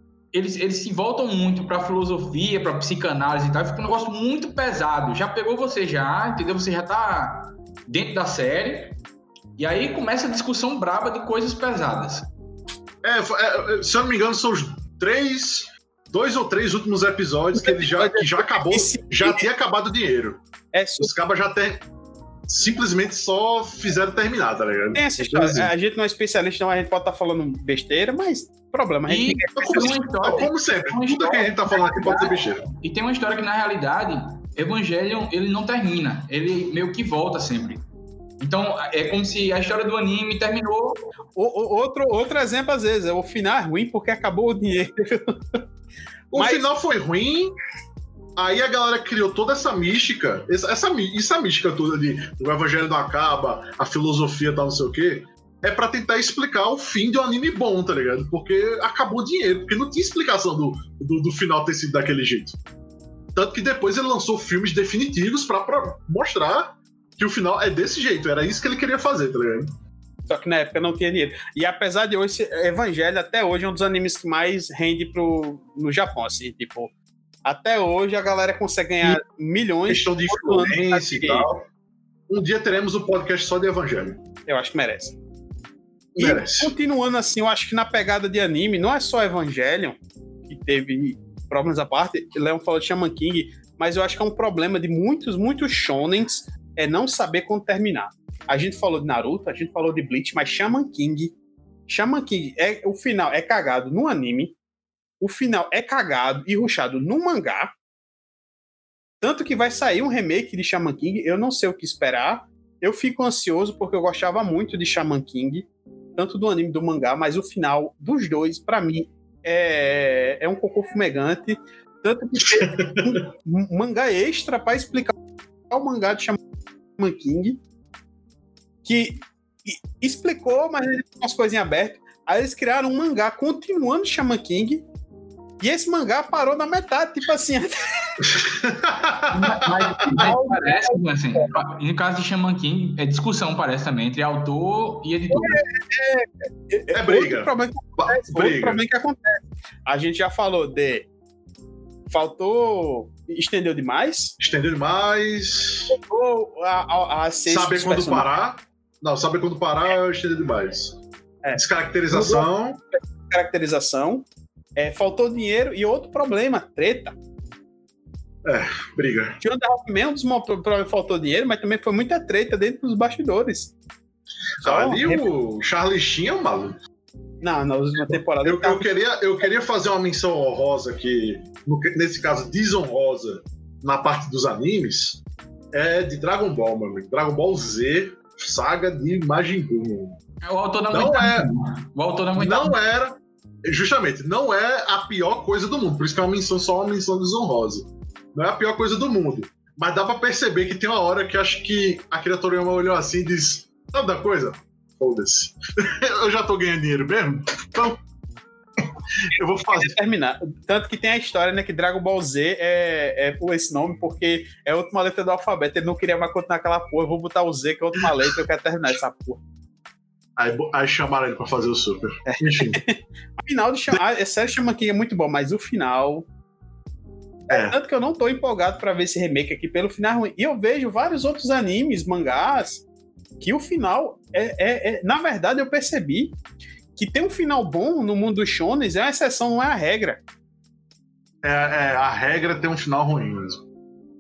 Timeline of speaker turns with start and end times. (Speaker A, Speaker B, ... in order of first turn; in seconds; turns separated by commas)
Speaker A: 0.3-9.0, Speaker A: 9.6-12.3, Speaker B: 13.0-20.4, Speaker C: 17.5-19.4, Speaker C: 20.7-21.1, Speaker B: 21.0-21.8, Speaker B: 22.5-25.7, Speaker C: 24.9-30.2, Speaker A: 29.1-37.8, Speaker B: 29.6-32.7, Speaker A: 38.4-41.0, Speaker C: 41.4-45.6, Speaker B: 46.3-47.5, Speaker C: 46.3-46.7, Speaker B: 48.4-62.6, Speaker B: 63.3-69.7, Speaker C: 70.3-76.9, Speaker C: 77.4-81.5, Speaker B: 79.9-81.7, Speaker B: 82.3-84.2, Speaker C: 84.5-85.2, Speaker B: 86.1-86.7, Speaker C: 86.2-101.3, Speaker C: 101.9-104.5, Speaker C: 105.2-107.7, Speaker C: 109.2-125.2, Speaker B: 122.4-123.2, Speaker C: 125.7-126.4, Speaker C: 127.0-127.6, Speaker C: 128.8-134.8, Speaker C: 135.6-138.3, Speaker B: 138.3-140.2, Speaker A: 139.3-145.6, Speaker C: 140.1-141.5, Speaker C: 145.3-151.1, Speaker B: 146.9-148.8, Speaker C: 152.1-154.3, Speaker B: 154.4-155.9, Speaker C: 155.9-158.3, Speaker B: 157.5-161.0, Speaker C: 161.4-167.2, Speaker B: 161.5-162.8, Speaker B: 168.4-169.4, Speaker C: 169.4-173.7, Speaker C: 174.6-175.3, Speaker B: 174.6-176.8, Speaker C: 177.4-178.8, Speaker B: 178.1-190.2, Speaker A: 190.4-192.8, Speaker B: 190.9-191.5, Speaker B: 192.3-208.0, Speaker B: 208.8-209.9, Speaker C: 209.7-219.4, Speaker B: 220.4-222.8, Speaker C: 222.3-226.2, Speaker C: 227.5-232.8, Speaker B: 227.5-227.8, Speaker C: 233.4-236.4, Speaker C: 236.9-240.2, Speaker B: 241.4-243.6